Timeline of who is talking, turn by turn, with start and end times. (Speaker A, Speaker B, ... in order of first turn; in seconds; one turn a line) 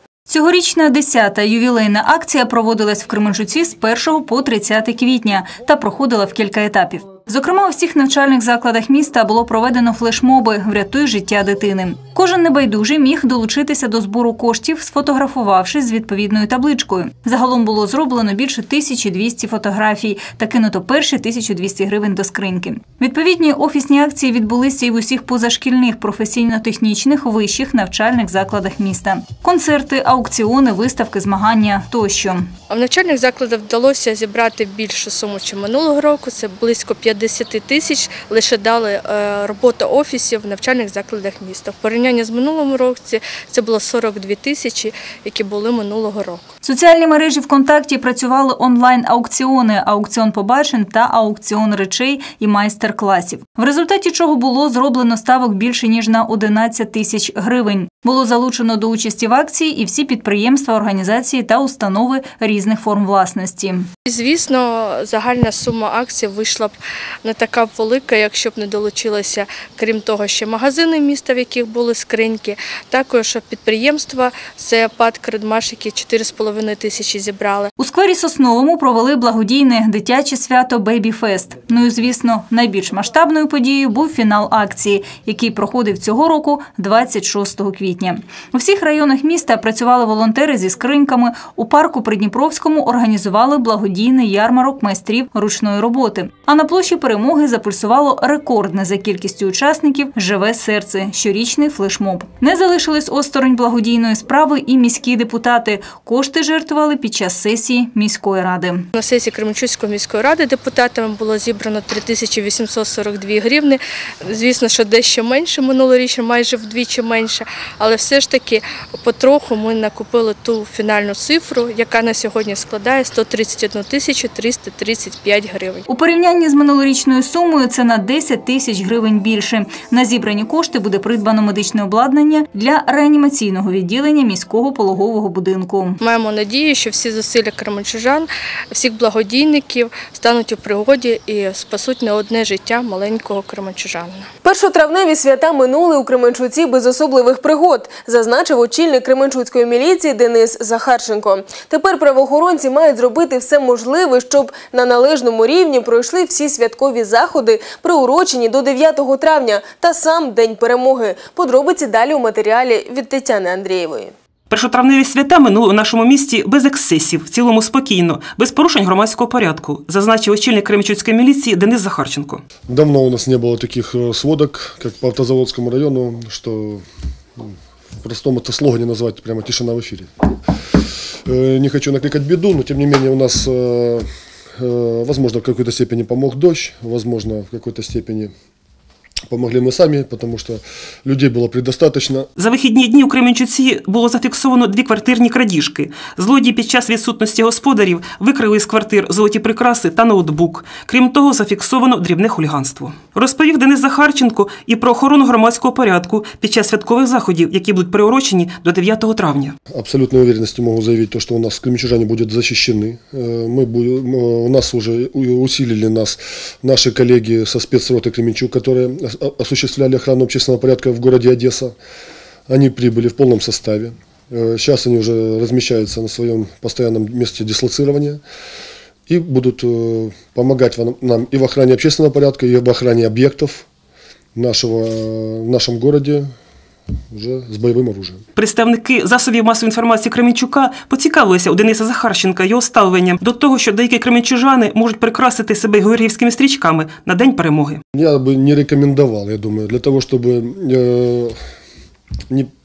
Speaker A: 0.3-32.5
Speaker B: 32.7-46.4
Speaker A: 46.6-63.9
Speaker B: 64.1-77.7
Speaker A: 77.8-108.9
Speaker B: 108.9-125.8
Speaker A: 125.9-136.0
Speaker B: 136.0-144.2
Speaker C: 144.4-164.1
Speaker D: 164.5-172.4
Speaker E: 172.7-176.8
Speaker E: 177.4-180.1
Speaker E: 181.2-184.1
Speaker E: 184.6-188.3
Speaker E: 189.3-192.3
Speaker D: 192.4-209.5
Speaker E: 209.7-221.7
Speaker E: 222.5-228.2
Speaker E: 229.1-233.7
Speaker E: 234.3-236.3
Speaker E: 237.1-238.2
Speaker D: 238.3-247.8
Speaker E: 247.9-251.4